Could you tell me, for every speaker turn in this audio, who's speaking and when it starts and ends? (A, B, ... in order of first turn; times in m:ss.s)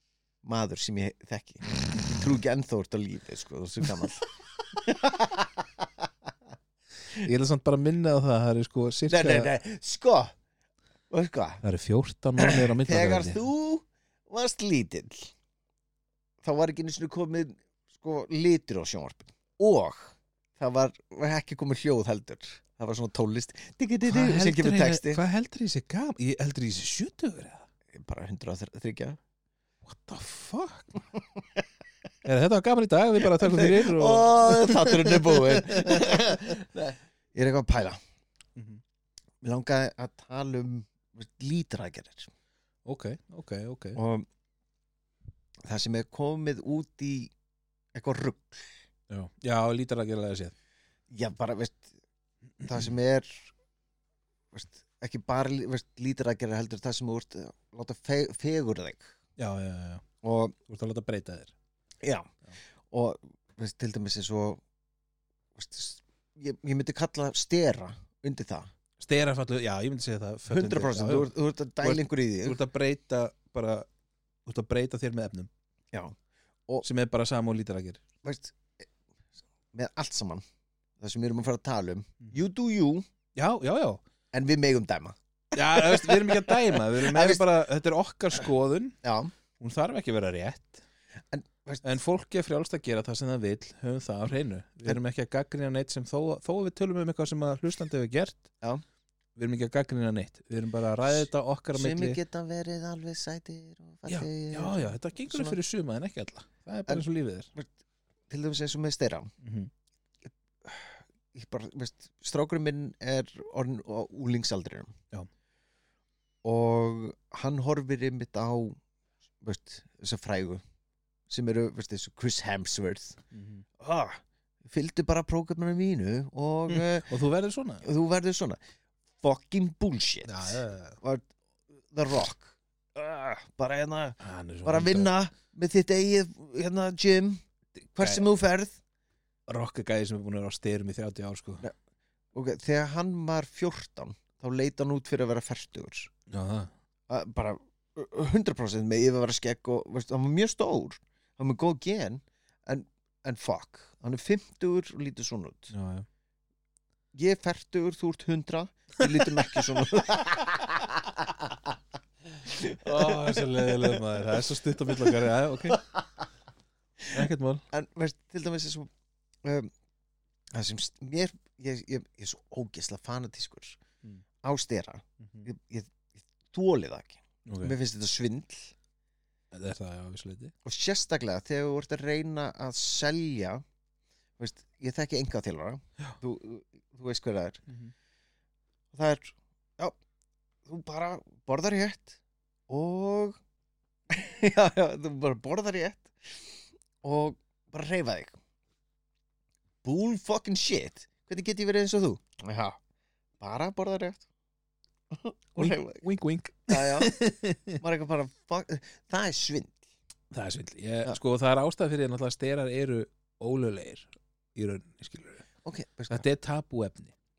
0:00.4-0:06.1 A
0:07.1-0:09.5 B
0:09.1-0:10.3 A
0:11.1-0:11.6 A
0:11.6-0:13.4 B
0:12.4-0:15.3 A
0:16.4-0:25.2 A
0:24.0-0:27.7 B
0:27.9-0:29.2 A
0:29.9-0:31.0 B
0:32.2-0:36.4 B
0:33.3-0:38.0 A
0:38.6-0:38.8 B
0:39.4-0:42.3 A
0:42.9-0:44.0 B
0:44.0-0:44.3 A
0:45.6-0:47.3 A
0:47.9-0:48.7 A
0:49.1-0:50.5 B
0:51.1-0:51.9 A
0:52.6-0:53.5 A
0:54.5-0:59.1 A
0:59.4-1:00.0 B
1:00.2-1:00.6 A
1:00.7-1:01.5 B
1:02.0-1:02.3 A
1:02.9-1:04.6 A
1:05.6-1:08.7 A
1:09.0-1:11.3 B
1:10.5-1:12.6 A
1:11.8-1:13.9 B
1:14.5-1:15.5 B
1:16.8-1:18.0 B
1:18.2-1:18.8 A
1:19.7-1:20.4 A
1:21.0-1:23.0 A
1:23.4-1:24.0 B
1:24.3-1:27.5 A
1:25.5-1:29.0 B
1:29.0-1:29.3 A
1:29.6-1:30.8 B
1:31.3-1:31.8 A
1:31.8-1:38.5 B
1:39.4-1:42.2 B
1:41.7-1:45.6 A
1:44.1-1:47.5 B
1:46.9-1:47.7 A
1:48.3-1:49.3 A
1:49.4-1:49.7 B
1:50.3-1:54.9 A
1:56.4-1:58.8 A
1:59.4-2:00.6 A
2:01.3-2:03.2 A
2:03.3-2:03.6 B
2:03.8-2:07.1 A
2:06.7-2:07.9 B
2:07.8-2:08.6 A
2:09.2-2:11.2 A
2:10.2-2:11.0 B
2:11.9-2:17.4 A
2:14.2-2:15.1 B
2:17.8-2:18.2 B
2:18.0-2:18.8 A
2:19.5-2:21.7 B
2:22.3-2:26.1 A
2:26.3-2:26.7 B
2:27.1-2:35.7 A
2:35.7-2:36.1 B
2:37.1-2:41.6 A
2:42.4-2:44.0 A
2:42.8-2:45.8 B
2:44.9-2:46.0 A
2:47.1-2:47.6 B
2:47.7-2:48.9 A
2:49.4-2:49.7 A
2:50.5-2:53.8 A
2:54.4-2:58.8 A
2:55.2-2:55.5 B
2:57.5-2:57.8 B
2:59.5-3:00.5 B
3:00.6-3:03.6 A
3:04.4-3:07.6 A
3:07.7-3:07.9 B
3:08.9-3:10.0 A
3:10.7-3:13.4 A
3:14.1-3:18.4 A
3:19.8-3:22.8 A
3:23.4-3:24.3 A
3:25.1-3:26.0 A
3:25.6-3:27.8 B
3:26.7-3:27.2 A
3:27.8-3:29.8 A
3:30.3-3:35.4 B
3:35.6-3:36.2 A
3:36.1-3:37.1 B